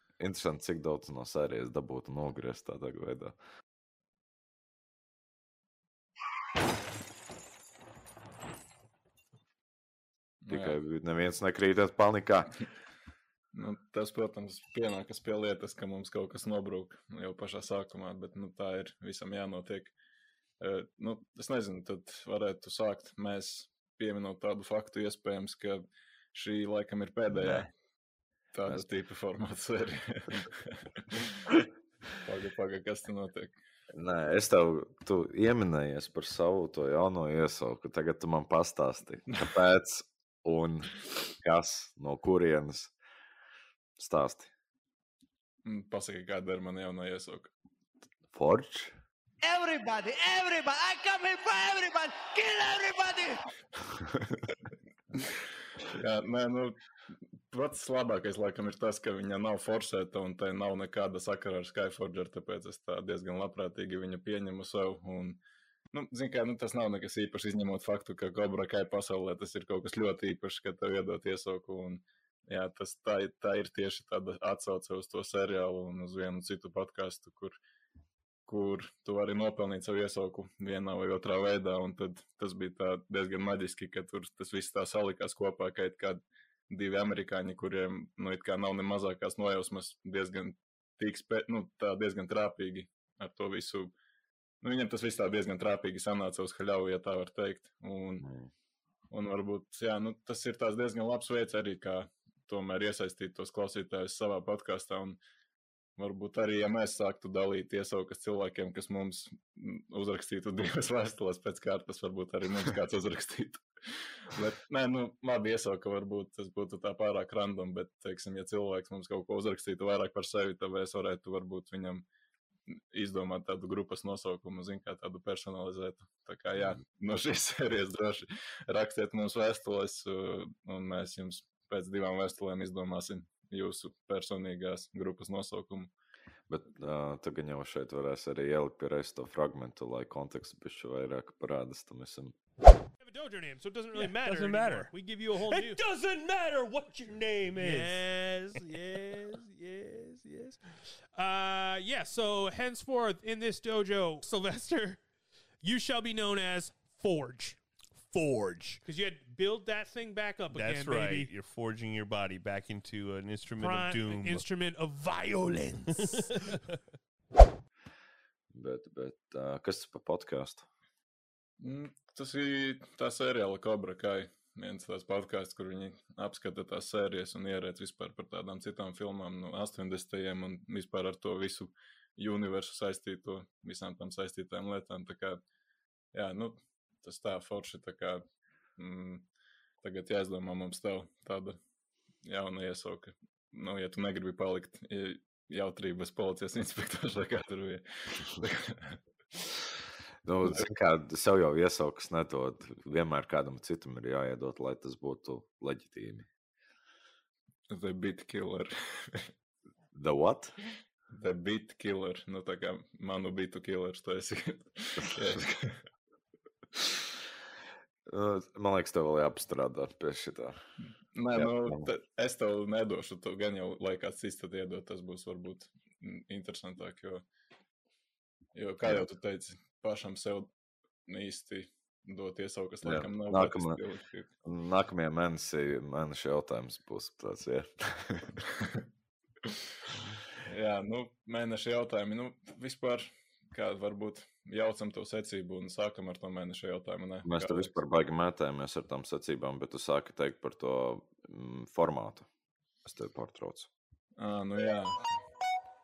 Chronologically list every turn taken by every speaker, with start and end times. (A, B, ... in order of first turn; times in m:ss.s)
0:00.2-0:03.4 A
0:10.4-0:10.8 B
0:10.5-0:12.5 A
0:13.5-0:19.9 B
0:20.6-0:27.7 B
0:27.3-0:27.7 A
0:28.5-0:31.3 B
0:32.2-0:33.5 B
0:33.9-0:42.9 A
0:44.0-0:44.5 A
0:45.6-0:47.5 B
0:48.3-0:49.0 A
0:49.4-0:53.4 C
0:55.9-0:56.8 B
0:57.5-1:05.4 B
1:05.9-1:17.6 B
1:18.4-1:33.9 B
1:34.6-1:38.2 B
1:38.2-1:38.5 A
1:39.1-1:45.2 B
1:46.0-2:02.0 B
2:02.7-2:15.9 B
2:16.5-2:22.3 A
2:23.0-2:26.0 D
2:23.9-2:30.6 E
2:26.9-2:29.4 D
2:31.1-2:35.0 D
2:35.6-2:41.3 D
2:40.5-2:44.5 E
2:43.6-2:46.5 D
2:48.5-2:50.6 A
2:51.6-3:05.4 B
3:06.1-3:08.2 B
3:08.8-3:09.3 B
3:09.8-3:11.6 B
3:12.2-3:19.0 B
3:20.2-3:26.3 A
3:27.7-3:29.3 B
3:29.9-3:30.6 A
3:31.1-3:35.8 B
3:38.1-3:40.6 A
3:41.1-3:47.2 B
3:41.3-3:41.9 A
3:48.5-3:50.5 B
3:51.0-3:54.3 B
3:52.8-3:53.8 A
3:54.4-3:58.4 A
4:00.4-4:07.8 B
4:07.2-4:12.3 A
4:12.8-4:13.7 A
4:14.2-4:15.0 B